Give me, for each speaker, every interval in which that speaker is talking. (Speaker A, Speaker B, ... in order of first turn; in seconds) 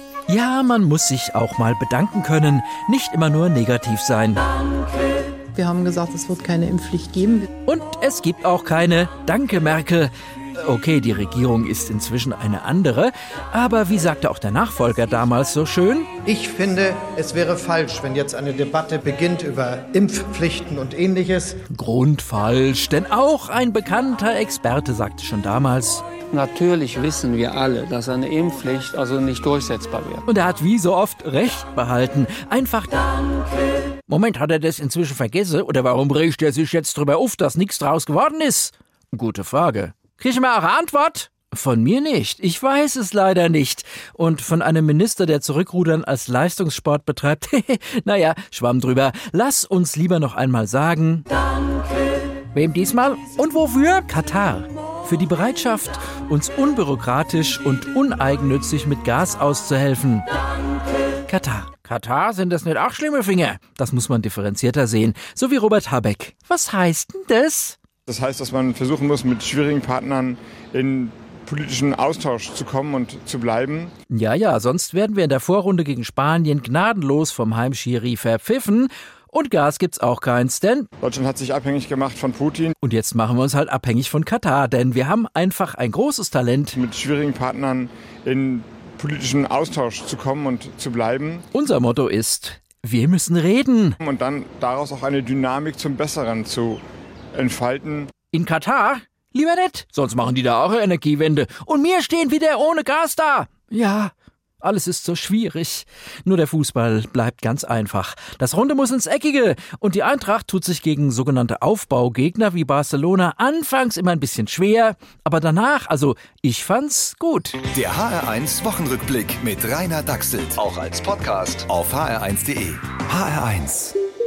Speaker A: 0.3-4.4, 7.7-16.1, 21.7-26.0, 30.3-33.0, 34.1-51.2, 52.5-60.2, 61.2-67.8, 74.1-80.9, 82.8-86.8, 91.5-94.0, 98.3-117.6
Speaker B: 5.5-7.5
Speaker C: 16.2-21.6
Speaker D: 26.3-30.2
Speaker E: 68.1-73.9, 81.0-82.8, 86.7-91.4, 94.0-96.8, 97.3-98.1
Speaker F: 117.7-124.0